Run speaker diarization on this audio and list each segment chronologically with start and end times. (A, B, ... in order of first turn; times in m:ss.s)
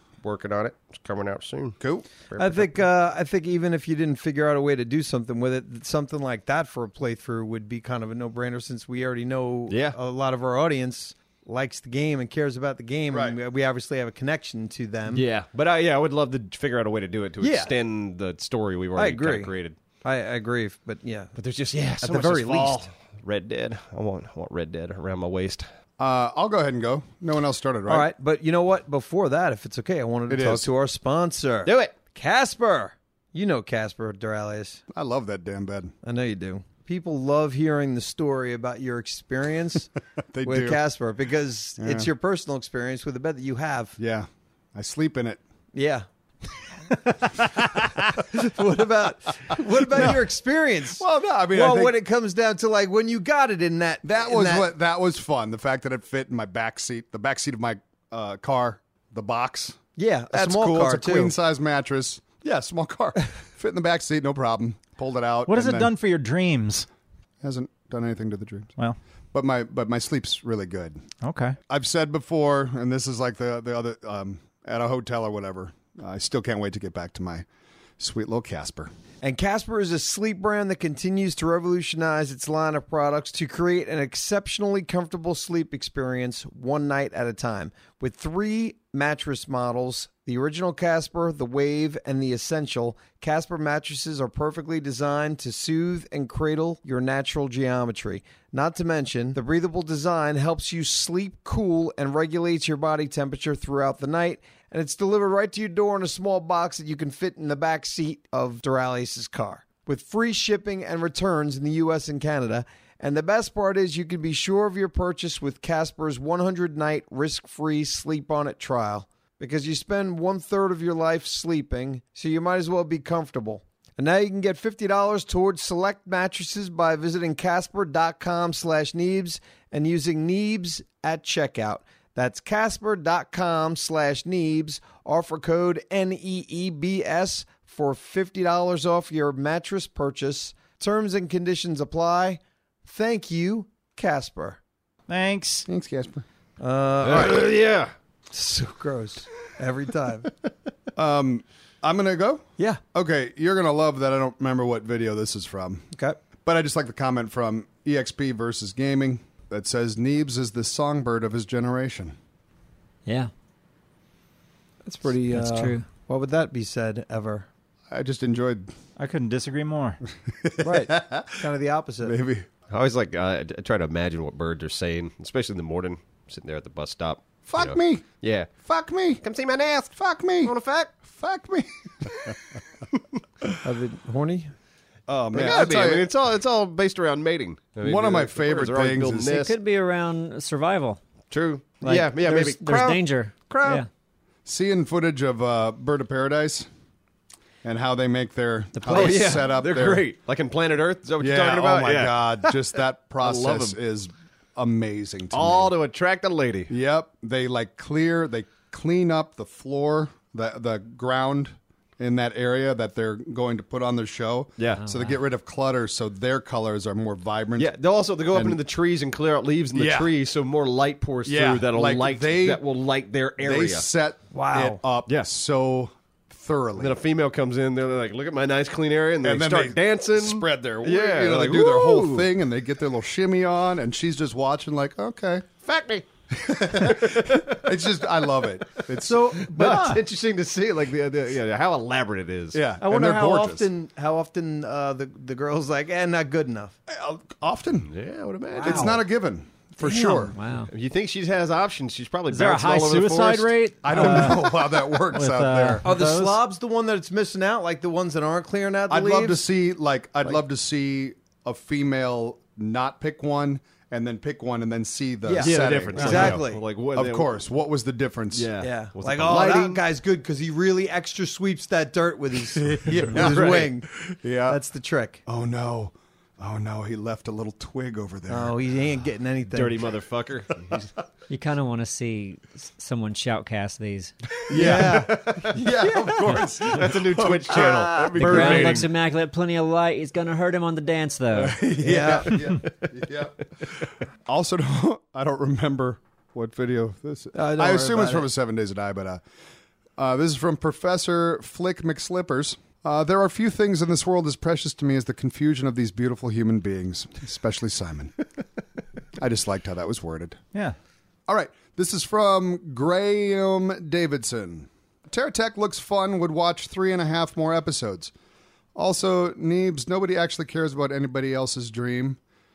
0:00.2-0:02.8 A
0:01.8-0:02.1 B
0:02.4-0:15.2 C
0:09.7-0:10.0 A
0:13.1-0:13.4 B
0:15.1-0:19.8 A
0:17.4-0:17.7 C
0:19.0-0:21.3 C
0:21.4-0:25.7 A
0:22.0-0:22.8 C
0:26.0-0:28.1 B
0:27.9-0:34.8 C
0:30.3-0:30.7 B
0:31.6-0:31.9 A
0:34.9-0:35.9 B
0:36.0-0:39.9 C
0:40.3-0:40.8 B
0:40.4-0:44.0 C
0:41.8-0:42.1 B
0:44.0-0:45.4 B
0:45.7-0:46.1 C
0:46.9-0:54.7 C
0:49.8-0:50.3 B
0:51.0-0:52.0 B
0:54.0-0:59.8 B
1:00.0-1:01.3 C
1:00.3-1:05.9 B
1:05.5-1:06.9 D
1:07.4-1:08.7 B
1:09.3-1:11.1 B
1:11.2-1:11.6 D
1:11.7-1:17.5 B
1:18.0-1:18.9 B
1:19.2-2:24.6 C
2:25.1-2:25.7 D
2:25.7-2:26.2 B
2:26.6-2:27.5 C
2:27.0-2:27.9 A
2:28.3-2:30.4 C
2:31.0-2:35.9 B
2:36.4-2:42.2 B
2:43.1-2:43.3 E
2:44.8-2:47.5 C
2:45.3-2:45.9 E
2:47.9-2:48.7 B
2:49.0-2:50.0 D
2:50.3-2:51.5 B
2:50.6-2:52.2 C
2:52.0-2:52.5 B
2:52.7-2:58.6 A
2:57.5-2:59.2 B
2:59.2-3:00.9 A
3:00.0-3:02.4 B
3:03.6-3:04.5 C
3:05.1-3:09.6 A
3:05.3-3:06.1 B
3:07.8-3:09.4 B
3:09.3-3:11.0 E
3:11.3-3:13.8 A
3:11.8-3:13.9 E
3:14.5-3:16.7 B
3:17.6-3:20.0 B
3:18.8-3:19.5 E
3:18.9-3:23.8 A
3:21.2-3:25.7 B
3:25.3-3:26.7 A
3:26.7-3:37.7 B
3:34.8-3:35.2 E
3:37.6-3:43.8 A
3:38.3-3:38.6 B
3:39.7-3:40.1 B
3:41.3-3:42.6 B
3:43.4-3:47.0 B
3:44.3-3:44.8 C
3:46.8-3:52.3 A
3:49.2-3:55.5 B
3:55.6-3:56.1 A
3:56.3-3:59.7 B
3:56.6-3:57.7 A
3:59.0-4:00.0 C
3:59.5-4:02.6 A
3:59.6-4:00.0 D
4:02.5-4:03.7 B
4:02.8-4:06.7 C
4:06.9-4:07.9 B
4:07.9-4:09.0 A
4:08.6-4:09.0 C
4:08.6-4:10.4 B
4:10.0-4:10.7 E
4:10.7-4:13.5 A
4:12.3-4:16.4 D
4:13.8-4:15.8 B
4:15.8-4:19.4 C
4:18.9-4:28.5 B
4:25.3-4:26.6 C
4:25.4-4:27.4 A
4:28.3-4:29.8 A
4:28.6-4:35.2 C
4:32.6-4:34.6 B
4:32.9-4:33.7 A
4:35.3-4:38.6 B
4:38.3-4:39.8 C
4:39.5-4:40.9 A
4:41.3-4:44.1 E
4:44.5-4:48.8 B
4:44.5-4:46.4 C
4:44.5-4:48.9 A
4:48.2-4:51.7 E
4:51.3-4:59.2 B
4:51.8-4:52.4 C
4:57.3-4:58.3 C
5:00.0-5:08.2 B
5:09.2-5:10.4 B
5:11.3-5:18.1 B
5:18.8-5:22.2 B